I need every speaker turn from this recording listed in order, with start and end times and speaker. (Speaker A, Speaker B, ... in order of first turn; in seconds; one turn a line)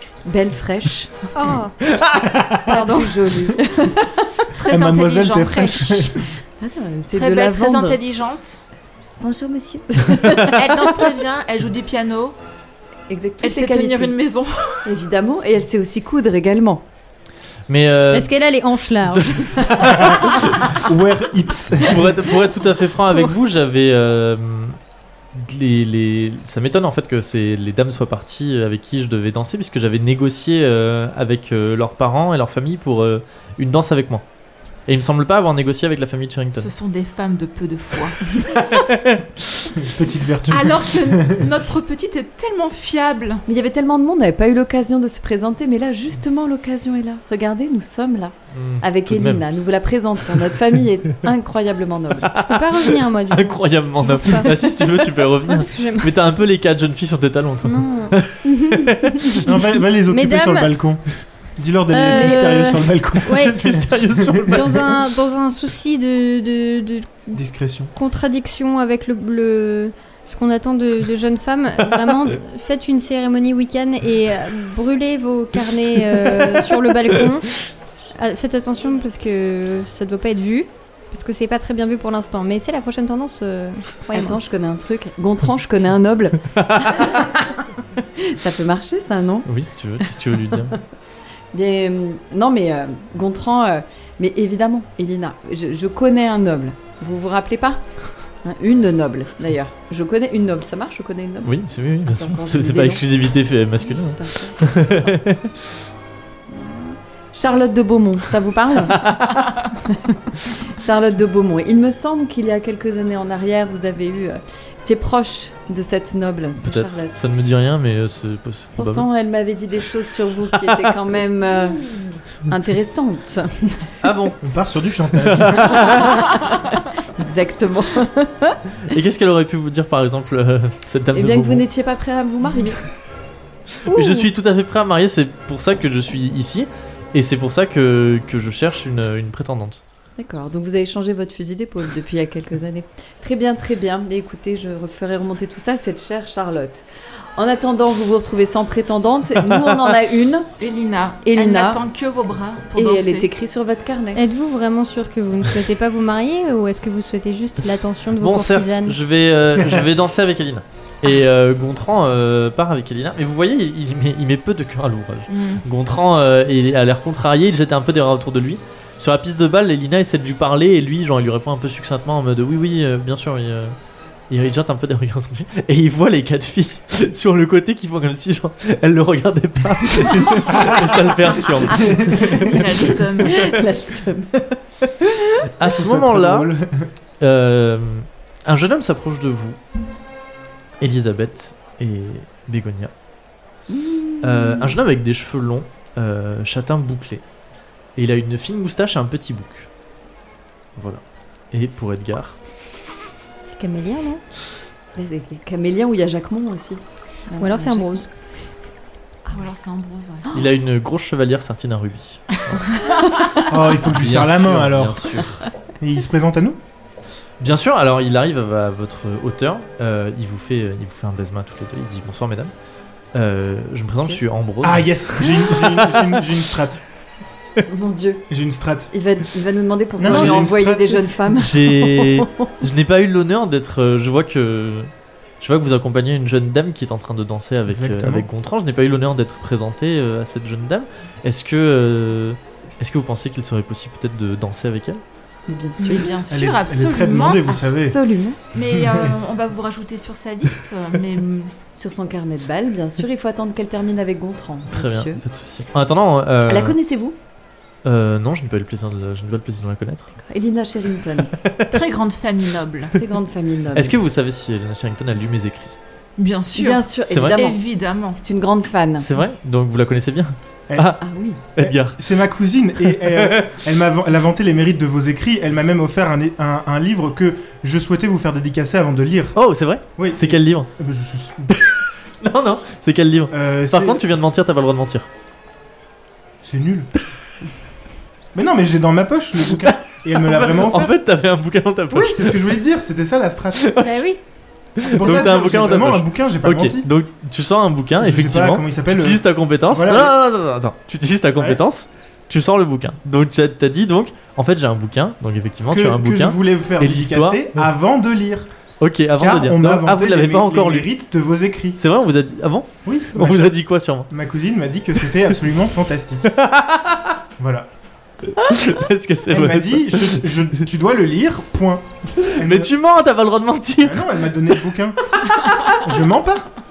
Speaker A: 0.2-1.3
Speaker B: 1.3-1.8
Speaker C: 1.8-2.5
Speaker D: 2.2-2.6
Speaker A: 2.7-4.5
Speaker B: 2.7-3.2
Speaker E: 4.6-6.2
Speaker D: 4.7-6.3
Speaker A: 6.6-8.0
Speaker E: 7.1-8.6
Speaker A: 9.2-11.0
Speaker C: 10.2-10.5
Speaker E: 10.3-12.4
Speaker A: 13.1-14.2
Speaker E: 13.4-15.0
Speaker A: 14.8-16.8
Speaker C: 17.7-18.3
Speaker B: 18.1-19.9
Speaker C: 19.1-20.9
Speaker D: 20.7-22.2
Speaker C: 21.8-24.8
Speaker B: 23.0-23.3
Speaker C: 25.3-34.2
Speaker C: 34.9-36.7
Speaker E: 36.6-38.6
Speaker C: 38.3-39.9
Speaker D: 39.8-41.5
Speaker E: 40.5-43.4
Speaker A: 43.5-52.3
Speaker C: 48.5-49.5
Speaker C: 52.2-59.4
Speaker B: 52.3-56.1
Speaker B: 57.6-59.5
Speaker D: 59.5-61.0
Speaker B: 60.1-60.7
Speaker D: 61.6-64.8
Speaker B: 61.9-63.5
Speaker C: 63.2-65.0
Speaker B: 64.5-67.4
Speaker D: 67.3-67.9
Speaker B: 67.9-77.7
Speaker B: 78.2-84.4
Speaker A: 84.1-87.6
Speaker C: 86.5-87.1
Speaker A: 88.2-89.5
Speaker C: 89.5-90.7
Speaker A: 90.5-90.8
Speaker A: 91.5-101.5
Speaker C: 101.4-105.7
Speaker A: 102.1-103.0
Speaker A: 103.8-104.6
Speaker A: 106.5-117.1
Speaker C: 109.0-109.4
Speaker C: 116.6-119.1
Speaker A: 118.8-123.9
Speaker C: 120.5-120.9
Speaker C: 124.0-124.4
Speaker D: 124.4-126.0
Speaker C: 125.2-126.3
Speaker A: 125.9-126.7
Speaker A: 127.2-128.6
Speaker C: 128.9-131.7
Speaker A: 131.1-132.8
Speaker C: 133.8-139.8
Speaker B: 133.9-134.2
Speaker A: 140.2-146.8
Speaker A: 147.4-150.5
Speaker C: 149.5-149.9
Speaker E: 150.6-153.3
Speaker A: 151.2-151.8
Speaker A: 152.8-154.2
Speaker B: 154.2-159.0
Speaker C: 158.2-173.8
Speaker D: 159.6-159.9
Speaker E: 165.3-165.6
Speaker C: 174.3-182.6
Speaker D: 181.7-182.3
Speaker E: 181.8-183.6
Speaker A: 182.2-185.3
Speaker C: 185.6-186.5
Speaker D: 185.6-186.9
Speaker C: 187.2-189.6
Speaker C: 190.8-192.9
Speaker A: 193.7-194.7
Speaker C: 194.2-197.2
Speaker C: 198.0-199.7
Speaker C: 200.8-202.4
Speaker B: 203.5-204.2
Speaker A: 205.0-208.0
Speaker B: 207.4-208.1
Speaker E: 209.3-210.3
Speaker C: 210.3-212.7
Speaker A: 212.8-213.4
Speaker D: 213.5-215.2
Speaker C: 213.8-215.4
Speaker D: 215.8-216.6
Speaker C: 217.4-222.5
Speaker C: 223.1-226.2
Speaker D: 224.6-226.8
Speaker A: 227.7-228.3
Speaker D: 228.3-228.9
Speaker A: 228.9-232.5
Speaker D: 230.0-231.1
Speaker C: 230.0-230.5
Speaker C: 231.4-234.9
Speaker C: 235.4-245.0
Speaker D: 237.7-238.3
Speaker A: 245.5-246.2
Speaker E: 245.8-247.6
Speaker D: 246.3-248.0
Speaker A: 247.7-248.4
Speaker E: 248.5-251.5
Speaker D: 248.6-249.2
Speaker A: 251.8-255.2
Speaker C: 254.7-256.8
Speaker A: 256.5-257.2
Speaker C: 257.9-260.1
Speaker A: 260.3-261.3
Speaker C: 261.3-261.8
Speaker E: 261.7-263.0
Speaker A: 262.9-264.0
Speaker C: 263.7-265.8
Speaker E: 266.2-268.2
Speaker A: 266.6-267.6
Speaker C: 267.1-267.4
Speaker A: 268.2-269.1
Speaker C: 269.0-271.0
Speaker D: 270.7-270.9
Speaker A: 271.0-271.4
Speaker C: 271.6-272.0
Speaker D: 271.6-279.4
Speaker C: 272.9-273.5
Speaker C: 279.4-280.7
Speaker D: 280.0-281.6
Speaker C: 281.5-285.1
Speaker D: 283.3-284.0
Speaker D: 286.4-286.9
Speaker D: 288.3-290.9
Speaker C: 289.6-292.5
Speaker D: 291.9-293.7
Speaker C: 293.6-294.0
Speaker B: 293.8-294.2
Speaker C: 294.8-307.7
Speaker D: 294.8-296.9
Speaker D: 298.0-300.1
Speaker D: 301.4-301.6
Speaker D: 305.7-308.5
Speaker C: 308.8-310.9
Speaker D: 309.2-311.8
Speaker C: 311.8-314.1
Speaker D: 312.9-316.3
Speaker C: 316.2-317.2
Speaker D: 317.4-317.7
Speaker C: 318.2-320.3
Speaker D: 319.3-322.7
Speaker C: 322.2-324.3
Speaker D: 323.8-326.5